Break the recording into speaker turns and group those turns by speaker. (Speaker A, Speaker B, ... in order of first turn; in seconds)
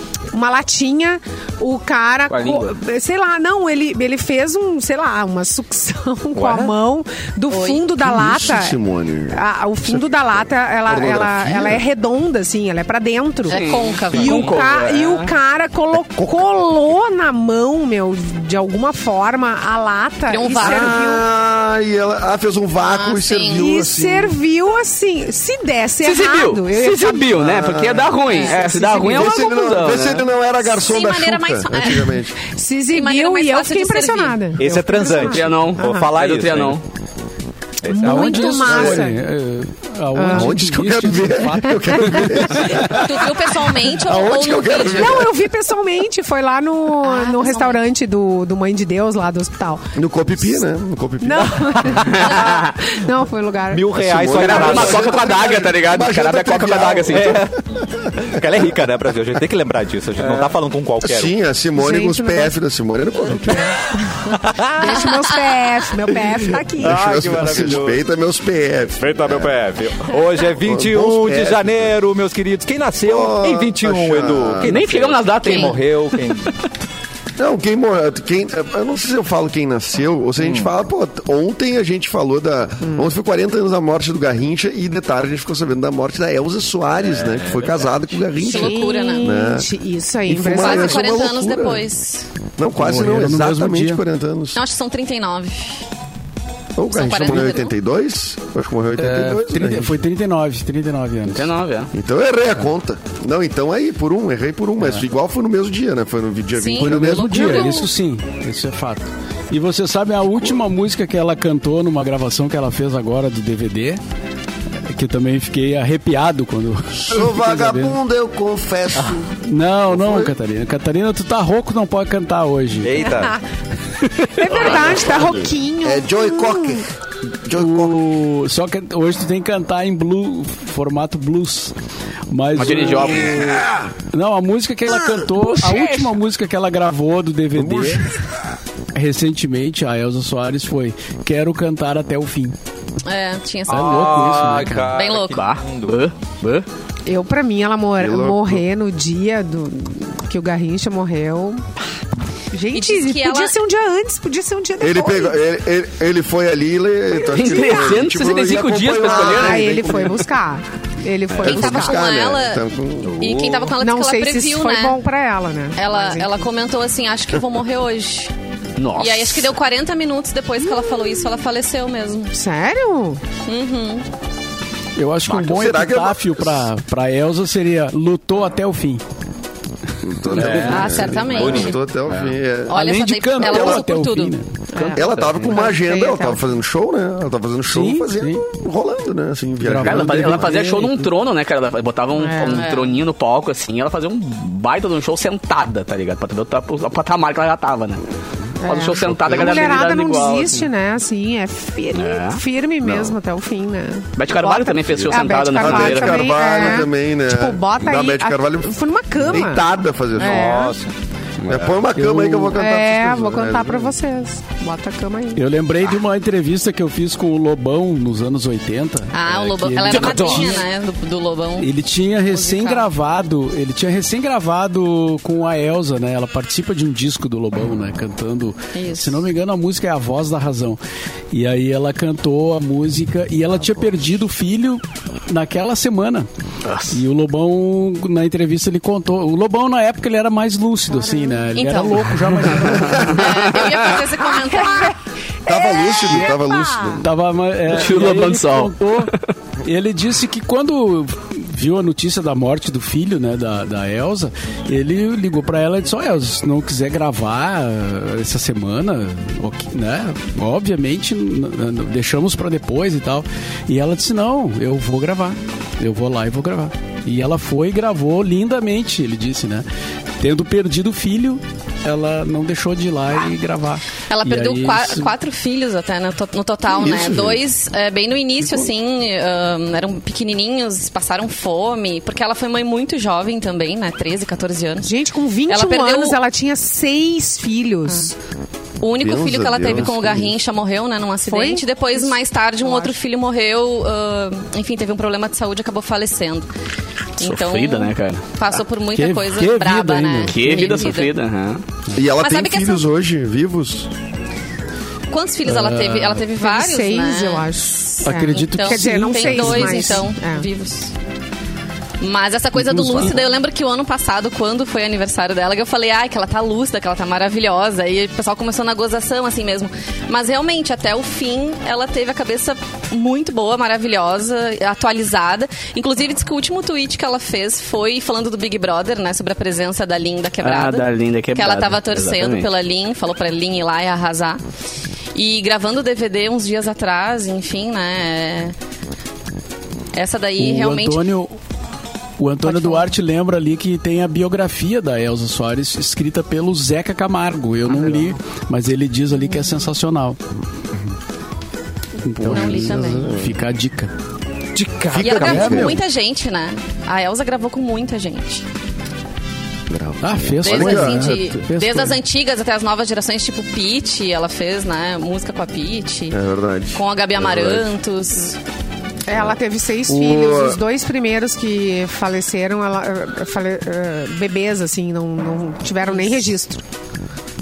Speaker A: 0.3-8.8, 9.3-21.2, 23.5-27.4, 28.3-29.5, 32.5-36.1, 37.9-39.2, 40.1-40.5, 41.5-43.0, 44.9-49.8, 51.2-54.9, 61.8-62.5, 64.8-67.2, 82.8-83.1, 88.4-91.2, 124.2-126.8, 147.1-151.6, 152.5-155.4, 157.4-158.0, 159.0-162.0, 163.7-166.5, 172.3-173.2, 184.8-186.4, 192.2-192.7, 198.6-209.6, 210.2-210.8, 212.5-215.4, 245.5-246.8, 284.8-288.1, 291.2-292.9, 306.4-310.5, 369.1-376.6
Speaker B: 2.3-2.7, 13.5-15.3, 26.0-30.2, 35.2-36.8, 52.3-52.6, 54.4-57.4, 74.6-76.5, 101.3-101.9, 124.5-125.0, 132.6-133.6, 145.3-146.7, 157.2-159.8, 168.8-169.5, 185.2-185.4, 189.8-198.0, 198.6-200.7, 201.9-202.4, 204.2-206.5, 219.8-220.5, 236.6-236.9, 242.9-243.7, 247.7-248.7, 297.2-298.2, 300.2-301.6, 330.4-332.5
Speaker C: 6.3-6.7, 34.6-36.8, 37.8-38.9, 41.5-42.2, 51.9-52.2, 53.7-55.2, 57.1-57.5, 58.2-61.3, 64.3-65.0, 66.8-68.0, 69.0-76.5, 80.4-80.7, 87.2-87.9, 122.8-123.4, 143.7-146.1, 163.0-163.7, 180.6-181.8, 210.2-210.9, 354.5-355.8
Speaker D: 7.5-7.9, 13.5-14.5, 20.3-20.9, 22.8-23.7, 28.3-28.6, 30.6-32.2, 32.9-34.5, 42.9-45.2, 47.0-47.8, 52.2-52.6, 75.4-75.8, 88.4-89.3, 90.5-92.2, 94.5-95.8, 96.9-97.7, 106.5-107.9, 143.0-145.4, 152.7-153.6, 161.4-162.6, 163.2-165.0, 165.7-168.3, 168.9-172.3, 173.4-174.1, 180.7-181.8, 182.7-185.0, 192.5-193.0, 219.1-222.9, 228.7-229.2, 241.5-245.0, 274.1-284.9, 285.5-286.2, 288.8-296.5, 297.2-301.1, 302.1-302.8, 305.1-307.5, 308.3-310.9, 312.0-334.4, 335.1-338.5, 339.9-341.1, 342.5-342.8, 349.3-349.6, 352.3-353.1, 354.9-358.4, 360.4-366.2, 366.7-368.4
Speaker E: 8.0-10.0, 10.9-11.8, 20.6-24.4, 27.4-28.2, 28.8-32.3, 38.6-39.0, 40.3-45.3, 49.9-52.0, 54.0-57.5, 58.0-58.4, 61.0-63.8, 66.8-69.5, 70.6-71.9, 73.0-74.8, 77.4-89.7, 90.2-91.9, 92.6-94.6, 96.8-100.0, 101.9-107.8, 116.9-119.3, 119.9-120.3, 125.8-126.9, 127.4-128.0, 137.5-138.1, 148.0-148.6, 154.8-160.3, 161.4-163.4, 175.3-176.7, 180.0-182.8, 183.4-183.8, 184.9-190.6, 199.1-199.8, 202.8-203.2, 205.2-210.7, 211.5-213.9, 245.5-247.1, 276.7-277.4, 278.4-278.7, 289.0-290.4, 301.9-303.9, 352.1-353.3, 354.9-355.8, 359.7-361.4, 366.1-367.7, 369.9-370.6
Speaker F: 37.9-41.5, 92.8-94.0, 99.0-101.5, 106.8-114.0, 114.9-118.0, 119.3-123.0, 127.5-131.7, 132.3-138.1, 138.9-142.6, 143.7-144.9, 174.9-179.0, 180.3-181.0, 182.1-184.5, 187.7-188.4, 189.6-191.1, 211.9-212.6, 215.3-220.6, 221.6-230.8, 231.3-236.3, 236.9-243.3, 247.0-249.1, 249.6-269.6, 270.2-275.1, 298.9-300.9, 305.4-306.2, 308.0-310.0, 312.6-313.2, 340.4-341.4, 342.2-350.2, 352.0-353.9, 355.2-355.7, 360.0-362.0